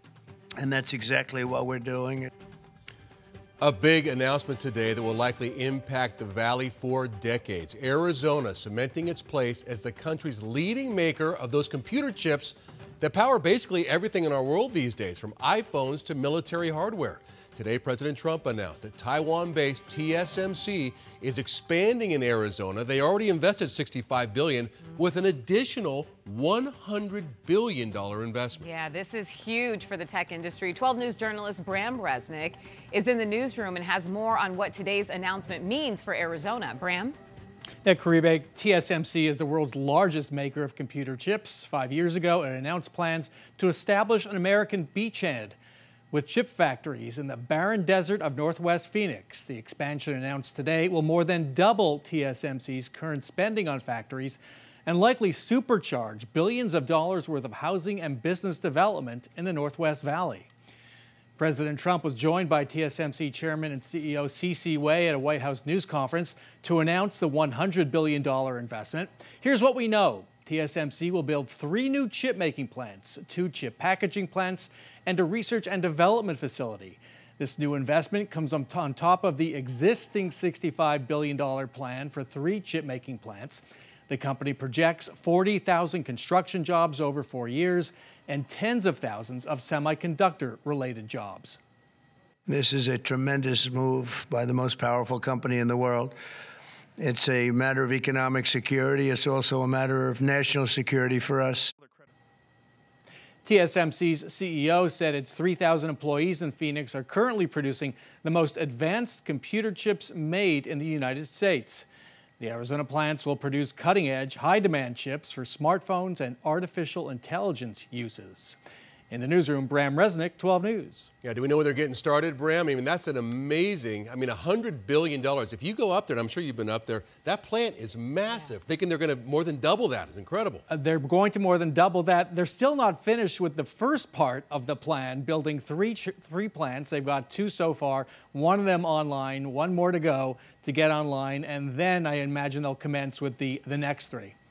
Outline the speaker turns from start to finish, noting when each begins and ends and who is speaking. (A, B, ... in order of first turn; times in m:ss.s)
0:00.6-0:02.3 A
0:03.6-0:28.6 B
0:28.6-0:37.2 C
0:37.8-0:45.6 D
0:46.1-1:00.5 D
1:01.4-1:31.6 D
1:32.5-1:36.2 A
1:37.0-1:41.7 A
1:43.4-1:51.8 D
1:52.4-1:58.6 D
1:59.1-2:01.1 D
2:01.2-2:10.6 B
2:10.7-2:24.3 D